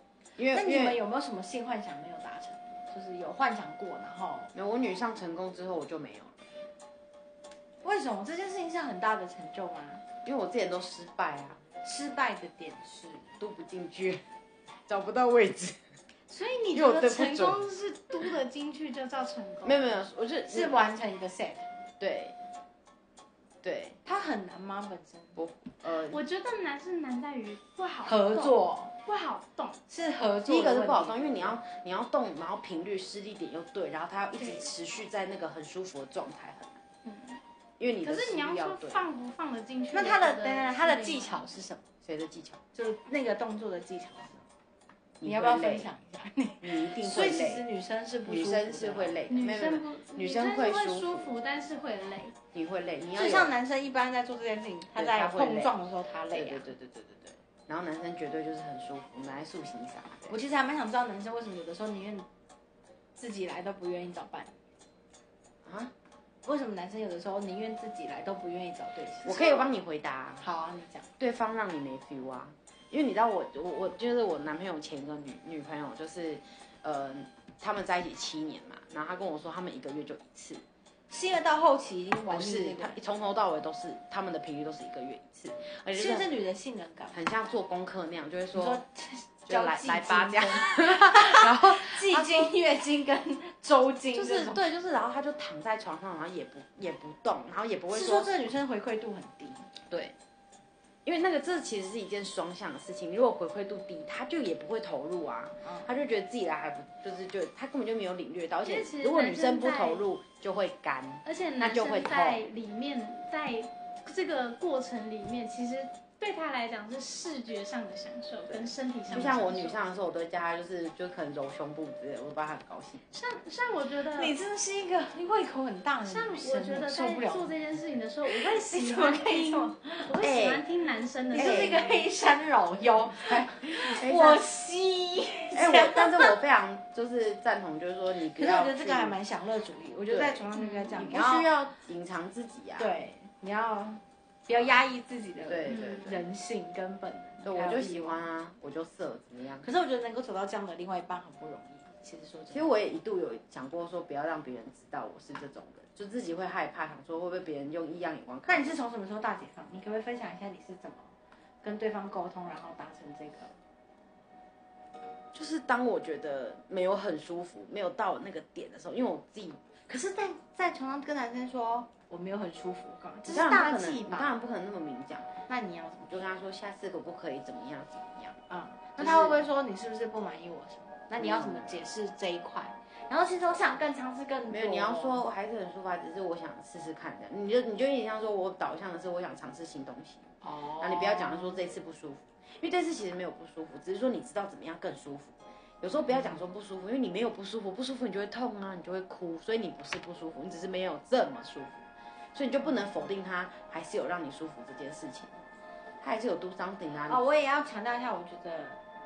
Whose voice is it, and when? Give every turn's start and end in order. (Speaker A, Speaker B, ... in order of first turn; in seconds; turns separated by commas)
Speaker A: 0.4-1.0, Speaker B: 0.5-4.5, Speaker A: 4.5-6.5, Speaker B: 7.8-10.0, Speaker A: 10.2-11.6, Speaker B: 11.8-13.3, Speaker A: 13.4-14.2, Speaker A: 14.9-15.8, Speaker C: 16.3-20.0, Speaker A: 16.7-17.6, Speaker A: 19.6-20.9, Speaker B: 20.5-21.7, Speaker A: 22.0-22.4, Speaker A: 23.6-24.0, Speaker B: 24.0-25.4, Speaker A: 25.4-26.2, Speaker C: 26.1-29.8, Speaker B: 28.0-28.9, Speaker B: 29.9-31.6, Speaker A: 30.4-36.8, Speaker C: 34.4-34.6, Speaker C: 37.0-37.4, Speaker A: 37.8-39.0, Speaker C: 38.0-41.5, Speaker B: 39.9-41.8, Speaker A: 42.0-42.6, Speaker B: 42.7-44.4, Speaker A: 45.2-45.9, Speaker B: 45.2-49.2, Speaker A: 46.6-47.6, Speaker A: 48.2-51.3, Speaker C: 49.3-52.4, Speaker A: 52.5-53.5, Speaker B: 53.1-56.7, Speaker A: 54.9-55.7, Speaker A: 56.3-60.4, Speaker B: 60.3-62.3, Speaker B: 63.1-64.5, Speaker A: 65.6-65.9, Speaker B: 66.4-69.6, Speaker A: 69.2-70.4, Speaker B: 70.4-71.1, Speaker A: 71.2-80.6, Speaker B: 81.1-83.0, Speaker A: 82.3-86.3, Speaker B: 85.9-87.2, Speaker A: 87.1-88.8, Speaker B: 88.5-94.6, Speaker A: 89.5-92.5, Speaker A: 94.1-98.3, Speaker B: 97.9-99.7, Speaker A: 99.9-100.2, Speaker A: 101.0-112.4, Speaker B: 105.6-105.9, Speaker C: 108.6-110.0, Speaker C: 111.2-119.8, Speaker A: 118.5-123.0, Speaker C: 123.1-124.3, Speaker B: 124.1-127.5, Speaker C: 126.0-132.1, Speaker B: 128.2-130.1, Speaker A: 130.2-130.6, Speaker A: 131.3-131.8, Speaker B: 131.3-136.3, Speaker A: 133.2-134.4, Speaker A: 135.5-139.2, Speaker B: 138.3-141.5, Speaker A: 140.1-140.4, Speaker C: 140.5-141.1, Speaker A: 141.0-142.9, Speaker B: 142.8-148.2, Speaker A: 145.4-146.2, Speaker C: 145.7-146.2, Speaker A: 147.4-149.7, Speaker B: 149.6-152.7, Speaker A: 152.5-158.7, Speaker B: 158.4-163.5, Speaker A: 165.3-169.6, Speaker B: 169.9-174.3, Speaker A: 173.2-175.3, Speaker B: 175.5-176.2, Speaker A: 176.1-178.4, Speaker B: 178.5-185.2, Speaker A: 179.0-179.4, Speaker A: 181.2-181.8, Speaker A: 184.5-205.4, Speaker B: 190.4-191.6, Speaker B: 196.0-196.4, Speaker A: 206.0-207.2, Speaker B: 207.1-208.8